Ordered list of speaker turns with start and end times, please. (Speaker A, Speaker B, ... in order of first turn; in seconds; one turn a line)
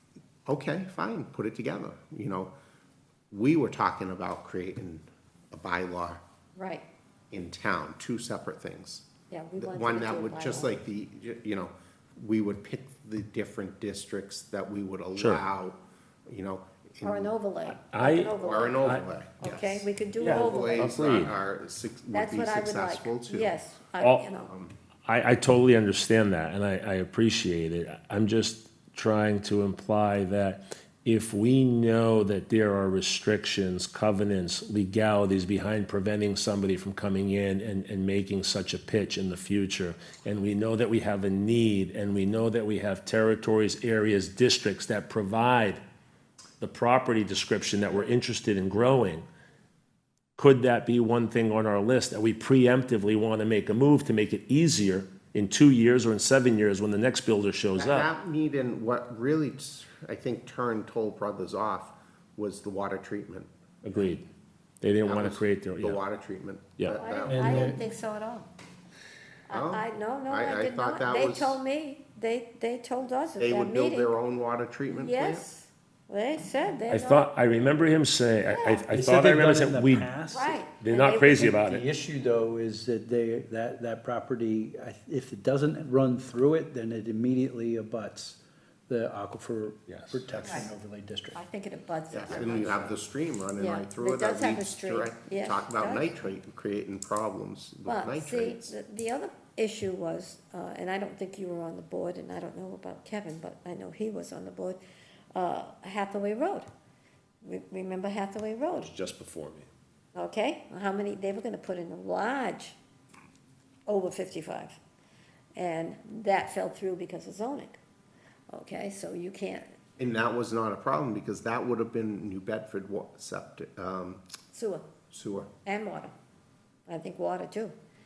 Speaker A: 0.5-2.5
Speaker A: 3.3-6.2
Speaker B: 6.5-6.8
Speaker A: 7.3-9.1
Speaker B: 9.3-10.7
Speaker A: 9.6-17.3
Speaker C: 15.2-15.4
Speaker B: 17.0-20.9
Speaker C: 17.7-18.3
Speaker A: 18.4-23.6
Speaker C: 20.2-21.3
Speaker B: 22.1-24.5
Speaker C: 24.0-24.2
Speaker A: 24.4-24.7
Speaker C: 25.1-45.8
Speaker C: 46.6-49.2
Speaker C: 50.4-58.1
Speaker A: 57.8-63.5
Speaker C: 63.8-64.2
Speaker C: 64.8-66.0
Speaker A: 65.0-67.8
Speaker B: 66.9-68.5
Speaker D: 67.2-67.8
Speaker B: 69.5-74.1
Speaker A: 69.5-71.6
Speaker A: 73.4-75.5
Speaker B: 74.9-77.3
Speaker C: 76.9-80.1
Speaker B: 78.5-78.9
Speaker D: 78.9-80.6
Speaker B: 80.3-81.5
Speaker C: 80.8-81.8
Speaker D: 81.2-91.4
Speaker B: 90.4-90.7
Speaker B: 91.3-92.9
Speaker A: 92.1-98.7
Speaker B: 93.5-96.1
Speaker B: 97.8-104.8
Speaker B: 105.3-106.7
Speaker B: 107.4-108.9
Speaker C: 108.7-109.7
Speaker B: 110.1-112.8
Speaker B: 113.8-114.8
Speaker B: 115.5-117.8
Speaker B: 118.5-119.7
Speaker A: 120.0-124.2
Speaker B: 124.5-124.9
Speaker A: 125.1-125.5
Speaker B: 125.6-126.1
Speaker B: 126.9-127.7